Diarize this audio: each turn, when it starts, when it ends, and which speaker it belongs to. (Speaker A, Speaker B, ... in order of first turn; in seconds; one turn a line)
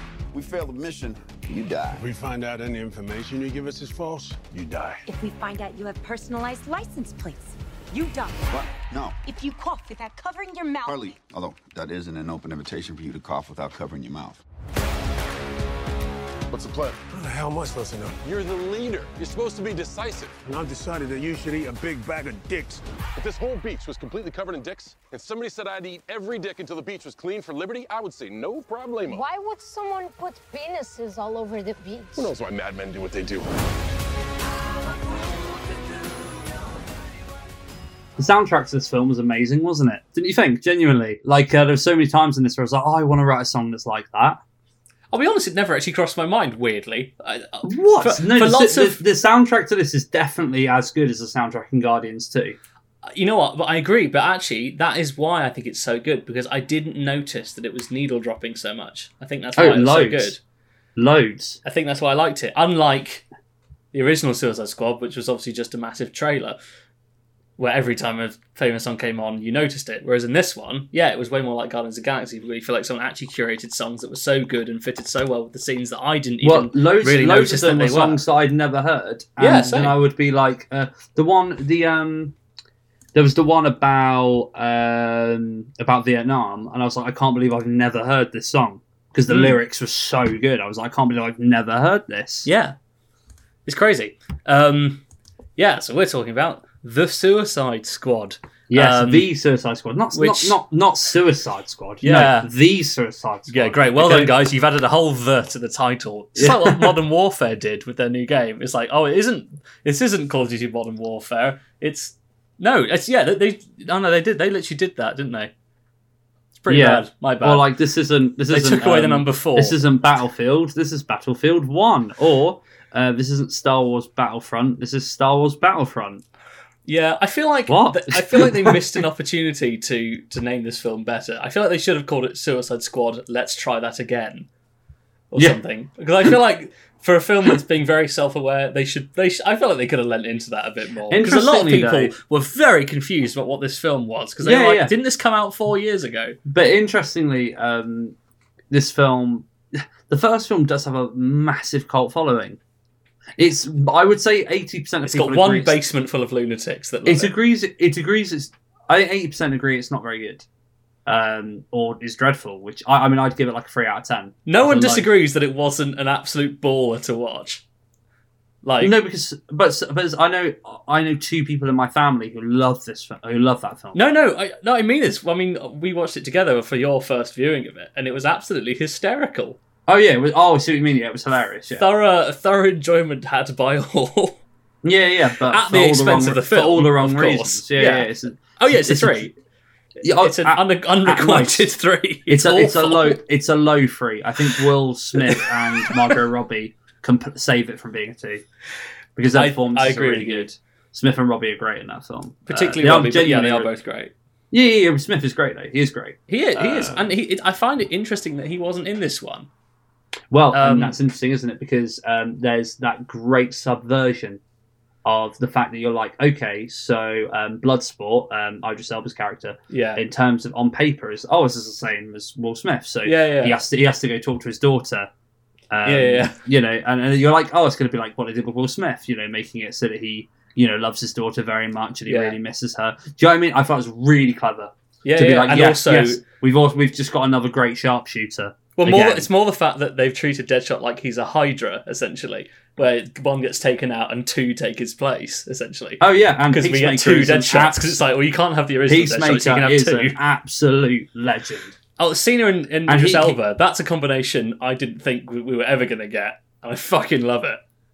Speaker A: 0.3-2.0
Speaker B: 1.9-5.0
Speaker C: 5.0-8.6
Speaker A: 8.5-9.2
Speaker C: 9.2-11.2
Speaker A: 10.8-14.4
Speaker D: 16.5-17.0
Speaker B: 17.1-18.2
Speaker D: 18.2-20.4
Speaker B: 20.4-22.8
Speaker D: 23.1-29.2
Speaker E: 29.1-32.3
Speaker D: 32.1-33.5
Speaker F: 38.2-44.4
Speaker G: 45.1-49.0
Speaker F: 47.6-52.6
Speaker G: 53.1-60.4
Speaker F: 59.5-60.4
Speaker F: 61.0-61.6
Speaker G: 61.6-63.2
Speaker G: 63.9-66.6
Speaker G: 67.6-78.2
Speaker F: 76.4-82.3
Speaker G: 79.4-80.0
Speaker F: 83.1-92.5
Speaker G: 89.3-89.6
Speaker G: 92.4-92.7
Speaker G: 93.7-95.0
Speaker G: 95.6-99.3
Speaker F: 98.7-104.3
Speaker G: 100.1-100.6
Speaker G: 102.0-102.5
Speaker G: 103.5-115.5
Speaker F: 106.3-107.0
Speaker G: 116.6-117.7
Speaker F: 116.7-126.2
Speaker G: 118.5-119.8
Speaker G: 126.8-134.5
Speaker F: 127.7-129.0
Speaker G: 135.3-146.3
Speaker F: 141.1-142.1
Speaker F: 144.4-144.9
Speaker F: 146.4-148.1
Speaker F: 148.7-152.6
Speaker F: 153.4-155.8
Speaker G: 155.0-157.3
Speaker F: 157.0-160.4
Speaker F: 161.1-165.1
Speaker G: 164.5-167.6
Speaker G: 168.6-168.9
Speaker F: 168.8-174.0
Speaker G: 173.9-179.6
Speaker F: 179.9-181.9
Speaker G: 181.7-184.4
Speaker F: 184.8-189.2
Speaker G: 185.5-189.3
Speaker F: 190.0-191.7
Speaker G: 190.0-193.2
Speaker F: 192.3-198.4
Speaker G: 195.2-196.1
Speaker F: 199.2-203.7
Speaker G: 199.3-200.5
Speaker G: 202.5-204.1
Speaker F: 204.5-207.1
Speaker G: 206.3-209.5
Speaker F: 210.3-214.4
Speaker G: 210.5-211.0
Speaker F: 215.0-225.1
Speaker G: 219.7-220.0
Speaker G: 223.0-223.6
Speaker F: 225.7-239.3
Speaker G: 225.8-226.4
Speaker G: 232.1-232.3
Speaker G: 235.0-236.2
Speaker G: 238.8-250.2
Speaker F: 246.0-248.0
Speaker F: 248.9-251.8
Speaker G: 252.0-257.6
Speaker F: 252.9-253.4